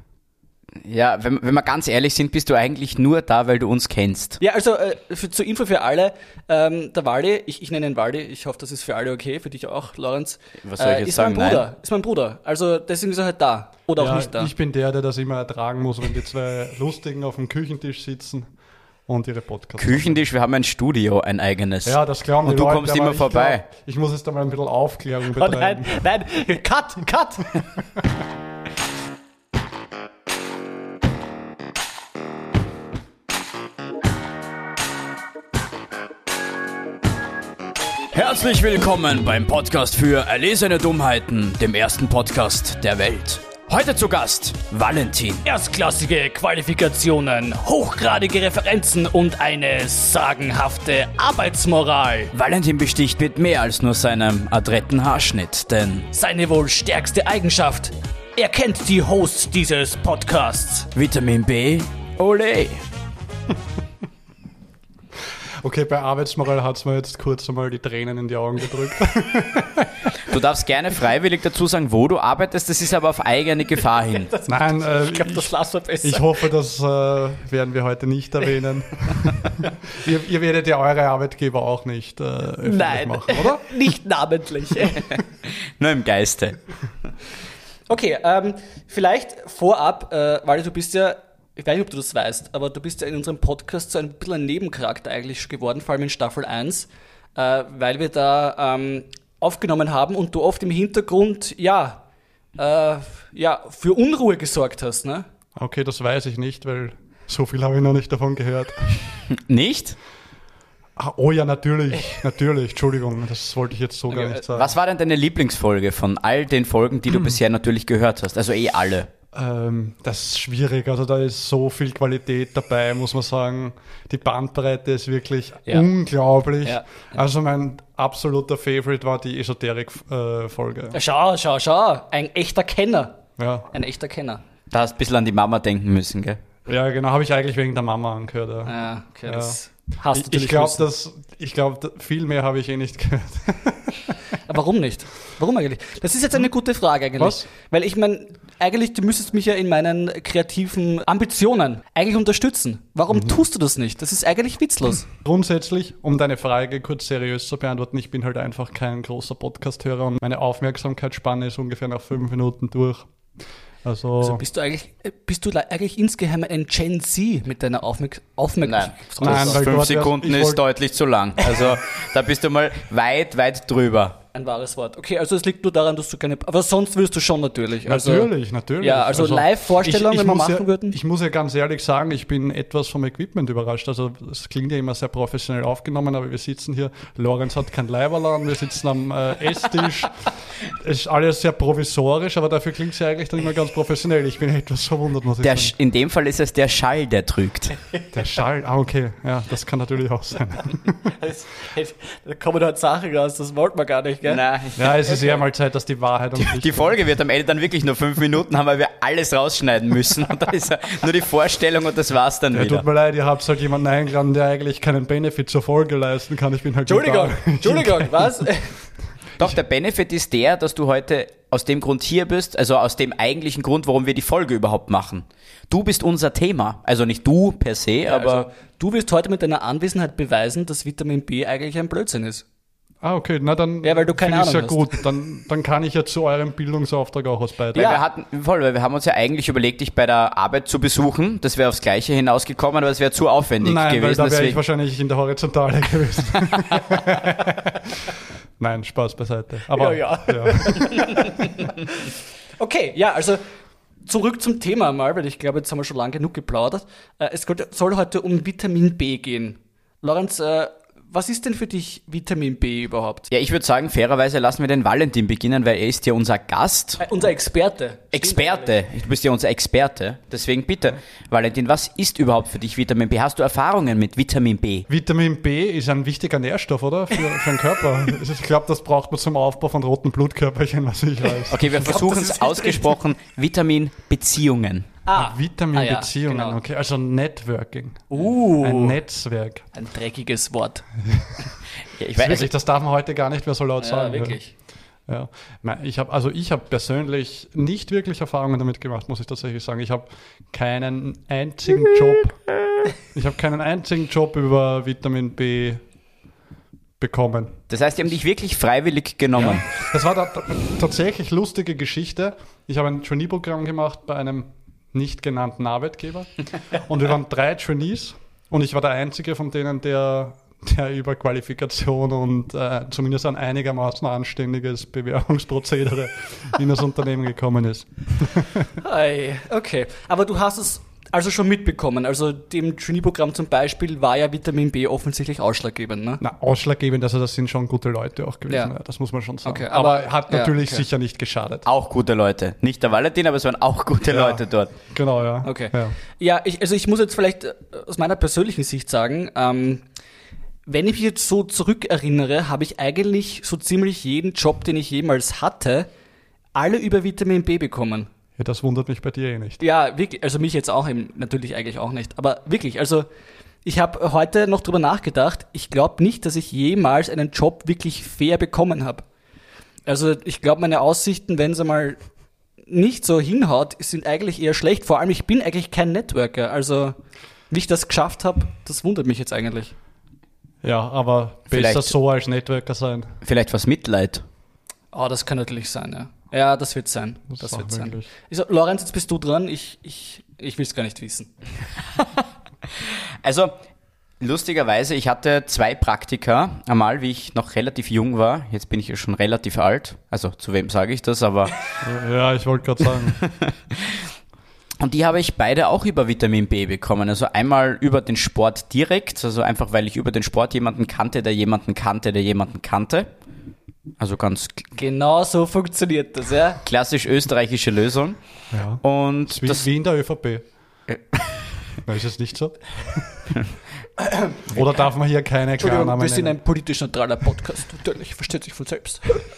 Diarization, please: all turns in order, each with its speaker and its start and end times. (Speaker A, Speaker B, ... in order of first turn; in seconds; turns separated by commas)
Speaker A: 0.8-4.4, Speaker B: 4.4-14.5, Speaker A: 10.6-11.6, Speaker C: 14.0-18.5, Speaker C: 19.1-20.2, Speaker A: 19.8-23.6, Speaker C: 21.8-26.0, Speaker B: 25.4-27.6, Speaker A: 38.1-45.4, Speaker B: 45.4-52.3, Speaker A: 52.3-56.1, Speaker B: 56.1-60.9, Speaker A: 60.9-62.8, Speaker C: 65.6-70.1, Speaker A: 70.2-74.3, Speaker B: 74.2-76.4, Speaker C: 74.5-75.5, Speaker C: 76.0-83.7, Speaker B: 82.6-85.1, Speaker A: 85.8-86.6, Speaker B: 87.9-102.0, Speaker B: 102.5-105.2, Speaker C: 105.6-109.1, Speaker A: 109.3-110.0, Speaker C: 111.0-114.7, Speaker B: 114.1-114.4, Speaker A: 114.5-119.1, Speaker C: 117.1-117.4, Speaker C: 119.3-131.0, Speaker B: 126.6-127.1, Speaker B: 130.9-133.2, Speaker C: 133.4-133.7, Speaker B: 133.7-134.4, Speaker A: 134.7-136.4, Speaker C: 136.7-138.7, Speaker B: 138.7-140.8, Speaker C: 139.2-139.6, Speaker C: 140.1-144.4, Speaker B: 144.5-155.1, Speaker C: 147.2-147.4, Speaker C: 153.1-153.4, Speaker C: 155.2-163.1, Speaker C: 163.8-164.4, Speaker B: 164.2-169.6, Speaker A: 168.6-174.2, Speaker C: 169.2-170.6, Speaker B: 174.3-178.3, Speaker C: 177.8-195.7, Speaker B: 178.8-180.9, Speaker A: 195.4-197.7, Speaker C: 198.1-201.2, Speaker B: 201.2-204.4, Speaker A: 204.3-205.3, Speaker C: 204.8-207.0, Speaker A: 206.3-212.8, Speaker C: 212.5-218.3, Speaker B: 216.9-218.8, Speaker A: 219.4-228.5, Speaker B: 228.1-232.4, Speaker C: 233.0-238.0, Speaker B: 233.8-235.0, Speaker A: 237.7-244.6, Speaker B: 237.7-238.0, Speaker C: 243.6-251.5, Speaker B: 249.7-253.4, Speaker B: 254.0-263.3, Speaker A: 263.3-267.0, Speaker B: 267.0-268.7, Speaker A: 268.1-274.9, Speaker C: 274.9-281.9, Speaker A: 281.5-284.9, Speaker B: 281.8-282.9, Speaker B: 285.1-286.6, Speaker C: 285.1-289.6, Speaker B: 288.1-289.0, Speaker B: 289.7-290.9, Speaker C: 291.0-291.5, Speaker A: 291.9-292.5, Speaker C: 292.1-294.4, Speaker B: 293.8-294.5, Speaker C: 295.1-302.5, Speaker C: 303.1-305.8, Speaker C: 307.0-307.6, Speaker A: 307.7-309.7, Speaker C: 309.4-328.7, Speaker B: 328.8-336.2, Speaker C: 336.2-341.6, Speaker B: 339.4-340.8, Speaker A: 341.6-344.7, Speaker C: 344.1-346.0, Speaker B: 345.4-349.8, Speaker B: 350.7-355.9, Speaker B: 356.5-358.1, Speaker C: 358.4-359.6, Speaker B: 359.6-363.1, Speaker B: 363.6-369.0, Speaker B: 369.9-372.0, Speaker B: 372.6-377.0, Speaker B: 377.5-379.7, Speaker C: 380.6-383.1, Speaker A: 381.5-381.9, Speaker A: 383.2-384.2, Speaker B: 384.9-391.3, Speaker C: 387.3-388.1, Speaker A: 392.8-393.6, Speaker A: 394.2-401.6, Speaker C: 401.8-403.2, Speaker A: 403.2-404.0, Speaker A: 404.8-413.1, Speaker A: 414.0-414.7, Speaker B: 414.8-416.6, Speaker A: 416.6-418.2, Speaker C: 418.5-420.4, Speaker A: 418.8-419.6, Speaker C: 421.8-423.3, Speaker C: 424.5-426.4, Speaker B: 425.6-429.2